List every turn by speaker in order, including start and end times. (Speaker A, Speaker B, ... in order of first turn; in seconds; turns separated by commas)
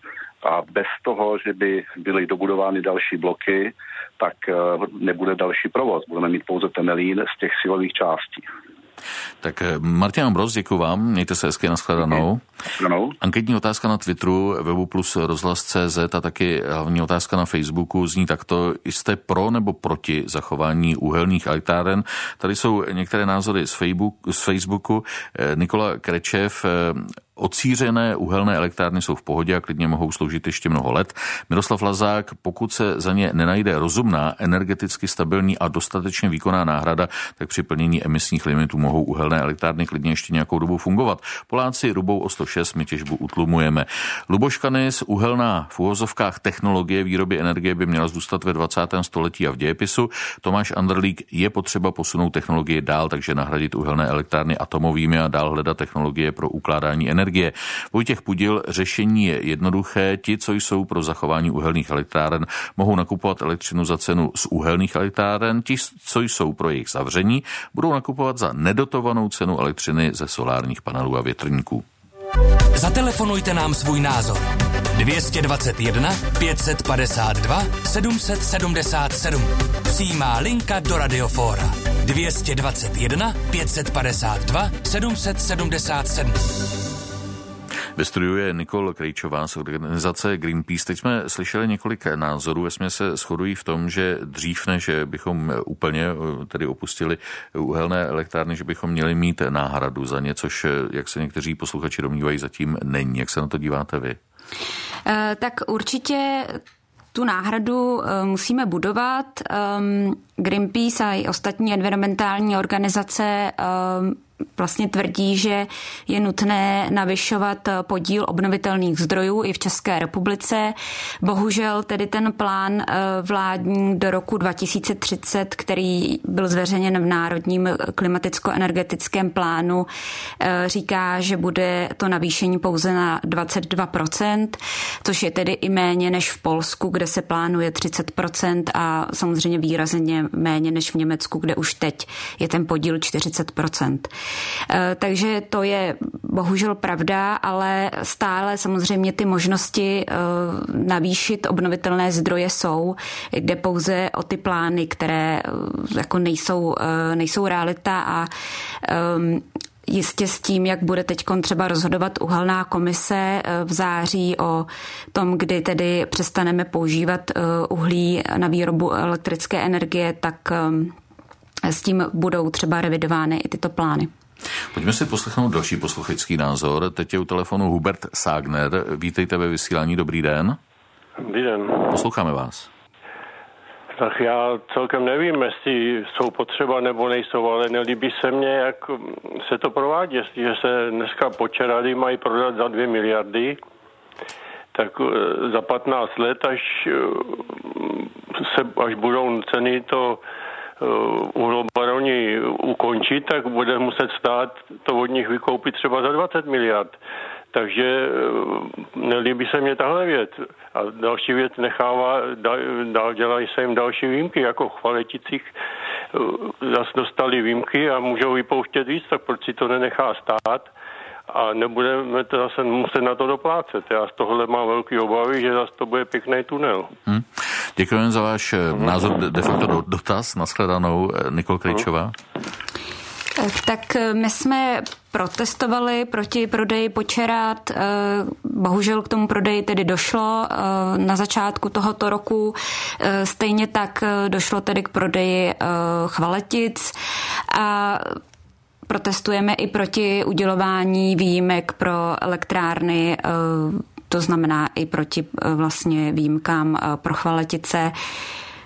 Speaker A: 0.4-8.5, Speaker B: 9.4-12.4, Speaker A: 12.7-13.1, Speaker B: 13.2-71.8, Speaker C: 72.7-86.4, Speaker B: 88.0-104.2, Speaker D: 105.0-106.6, Speaker D: 107.1-129.9, Speaker D: 130.4-144.1, Speaker D: 144.7-158.3, Speaker D: 158.8-170.9, Speaker D: 171.6-174.1, Speaker B: 174.7-180.6, Speaker E: 181.2-181.9, Speaker B: 181.9-182.7, Speaker E: 183.9-193.6, Speaker E: 194.7-200.2, Speaker E: 200.8-207.0, Speaker E: 207.5-215.5, Speaker E: 216.1-220.7, Speaker E: 221.3-226.9, Speaker B: 227.1-232.1, Speaker D: 233.4-246.9, Speaker D: 247.5-248.2, Speaker D: 248.9-258.0